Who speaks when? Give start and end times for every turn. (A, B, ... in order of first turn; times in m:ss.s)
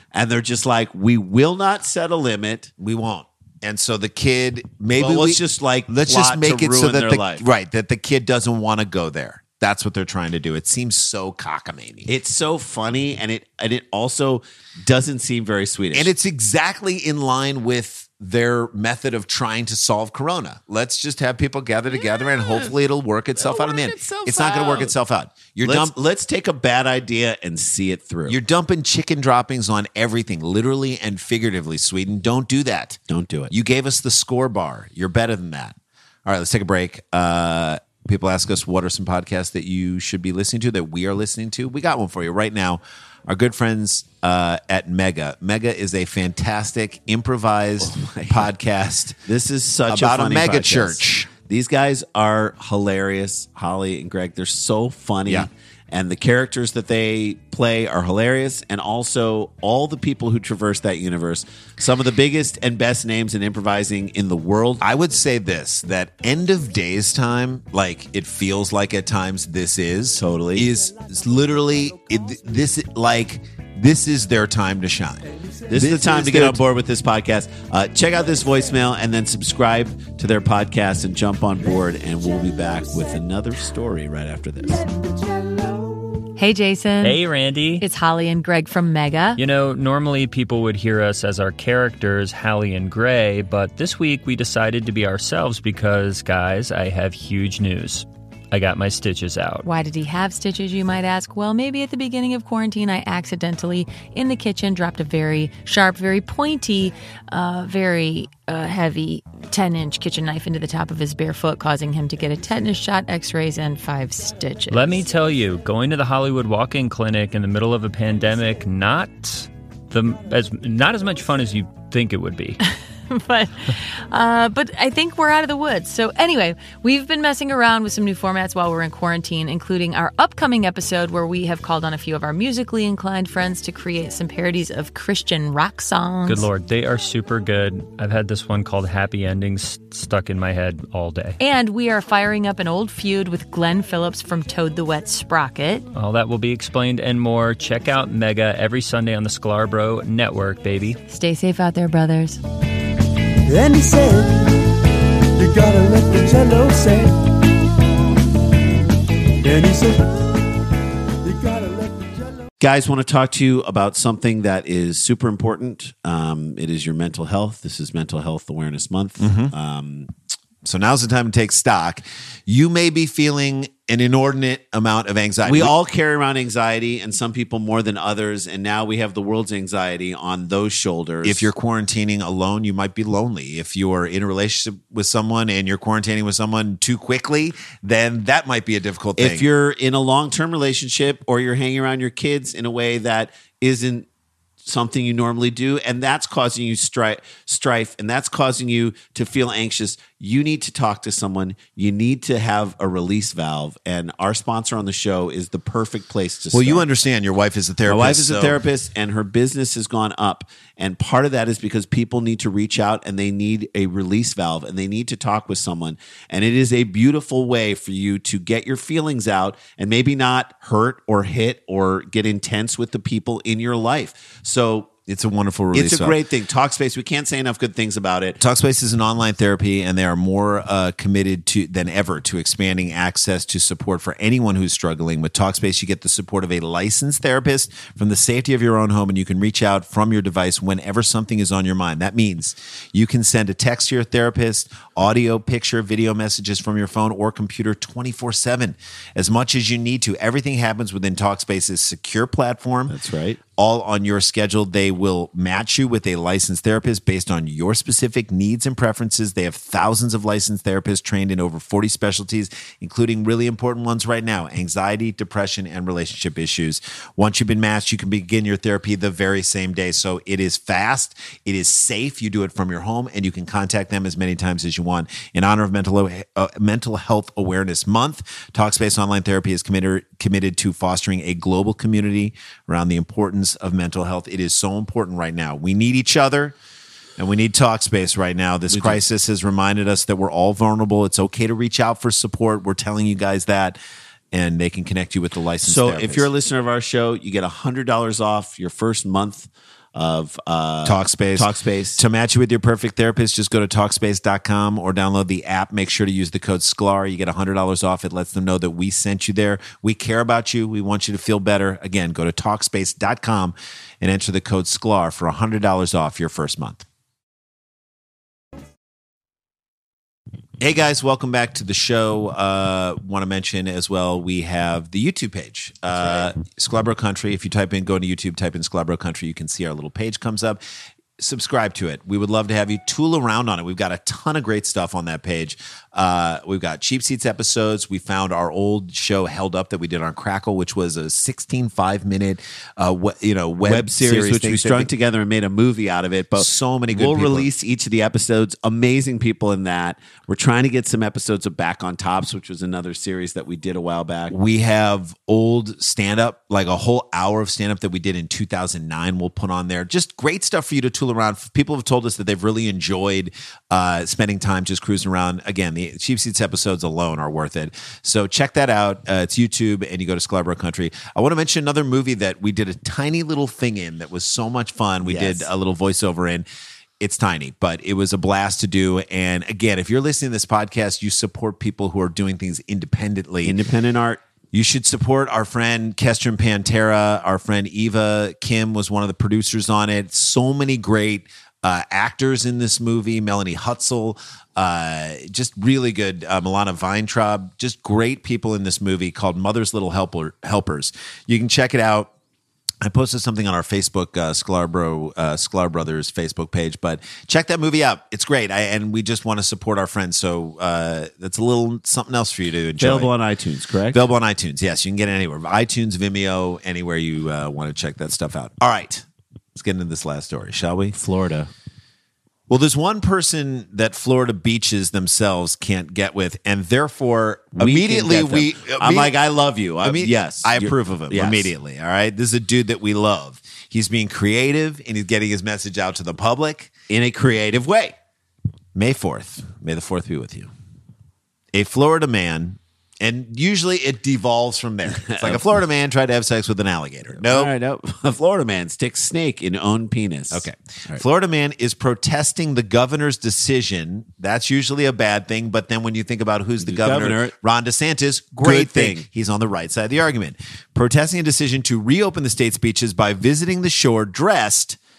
0:00.1-0:02.7 A
0:02.8-0:12.1 B
0:05.0-0:07.4 A
0:12.1-0:16.1 A
0:15.9-0:25.9 B
0:22.0-0:22.7 A
0:23.4-0:24.9 A
0:25.6-0:28.4 A
0:28.3-0:33.0 B
0:33.1-0:33.5 A
0:33.5-0:49.2 B
0:47.8-0:48.5 A
0:49.2-1:04.8 A
0:49.9-0:51.3 B
1:04.8-1:16.6 B
1:10.2-1:10.7 A
1:15.7-1:24.8 A
1:26.4-1:27.2 C
1:27.0-1:27.8 D
1:27.8-1:29.4 C
1:29.4-1:39.6 D
1:39.6-1:55.0 C
1:54.7-2:02.6 D
2:02.6-2:16.5 C
2:16.2-2:21.4 D
2:21.4-2:25.8 C
2:25.9-2:31.0 D
2:31.1-2:32.4 C
2:33.4-2:34.6 E
2:35.4-2:37.2 E
2:39.4-2:40.2 E
2:41.2-2:42.4 E
2:42.6-2:50.1 A
2:49.2-2:49.5 B
2:50.6-2:55.7 B
2:55.4-3:01.5 A
3:01.2-3:09.5 B
3:09.2-3:14.1 A
3:14.6-3:26.9 A
3:26.5-3:28.6 B
3:27.8-3:44.9 A
3:45.1-3:46.2 B
3:45.7-3:48.4 A
3:48.4-4:13.0 B
4:12.9-4:13.4 A
4:13.6-4:46.6 B
4:47.2-4:53.8 B
4:48.7-4:49.0 A
4:54.3-4:56.3 B
4:55.6-5:02.0 A
5:00.8-5:16.8 B
5:20.6-5:30.6 B
5:31.2-5:44.9 B
5:43.6-5:54.3 A
5:46.4-5:47.5 B
5:54.3-6:16.5 B
6:15.0-6:15.5 A
6:17.0-6:23.6 B
6:23.4-6:24.2 A
6:24.5-6:42.1 B
6:42.8-6:53.1 B
6:52.8-6:54.0 A
6:53.9-7:01.0 B
7:00.9-7:01.5 A
7:02.5-7:09.2 B
7:07.6-7:11.5 A
7:09.8-7:16.7 B
7:16.9-7:17.9 A
7:18.7-7:20.5 B
7:21.5-7:27.5 B
7:24.9-7:25.5 A
7:27.2-7:31.0 A
7:30.3-7:44.8 B
7:36.6-7:37.3 A
7:38.4-7:39.0 A